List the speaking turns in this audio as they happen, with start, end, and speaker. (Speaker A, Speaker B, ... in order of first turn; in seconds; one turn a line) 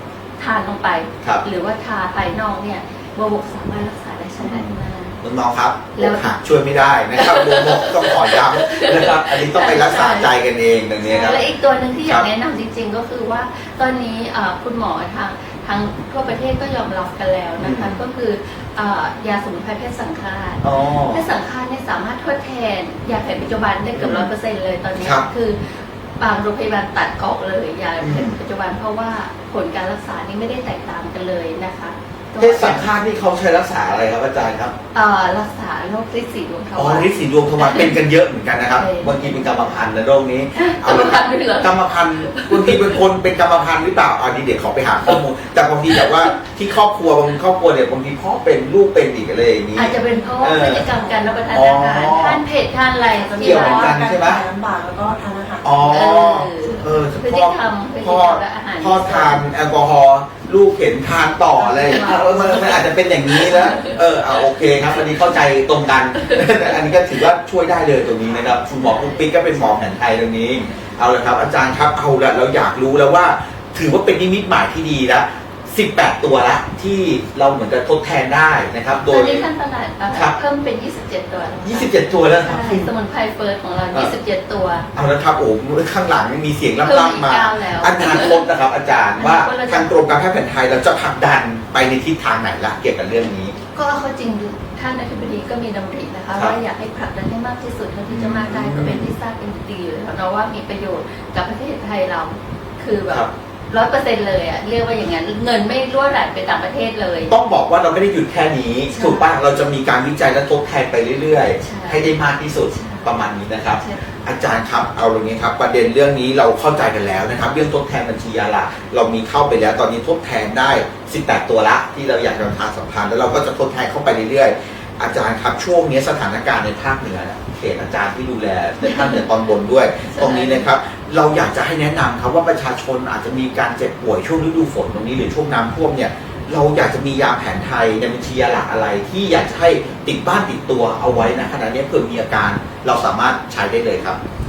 Speaker A: 0.4-5.2
Speaker B: 4.4-11.5
Speaker A: 5.9-6.3
Speaker A: 7.1-10.3
Speaker A: 11.0-32.9
Speaker B: 17.6-18.0
Speaker B: 20.6-21.3
Speaker B: 23.9-24.3
Speaker B: 25.0-25.2
Speaker B: 28.0-28.4
Speaker B: 32.4-34.7
Speaker A: 34.9-38.0
Speaker B: 36.8-50.9
Speaker A: 38.7-39.9
Speaker A: 40.5-43.0
Speaker A: 45.9-46.3
Speaker A: 49.7-54.0
Speaker B: 51.5-52.4
Speaker C: 53.1-56.1
Speaker B: 53.4-54.4
Speaker B: 55.6-79.5
Speaker A: 55.9-59.4
Speaker A: 61.6-64.4
Speaker A: 66.2-66.4
Speaker A: 68.2-69.4
Speaker A: 79.0-84.9
Speaker B: 80.1-80.4
Speaker B: 81.6-82.9
Speaker B: 84.9-93.5
Speaker A: 86.8-88.4
Speaker A: 89.2-89.9
Speaker A: 93.7-107.3
Speaker B: 98.1-99.1
Speaker B: 107.3-144.2
Speaker A: 108.9-109.3
Speaker A: 111.6-112.1
Speaker A: 112.7-113.1
Speaker A: 113.8-114.1
Speaker A: 128.8-129.2
Speaker A: 130.1-130.7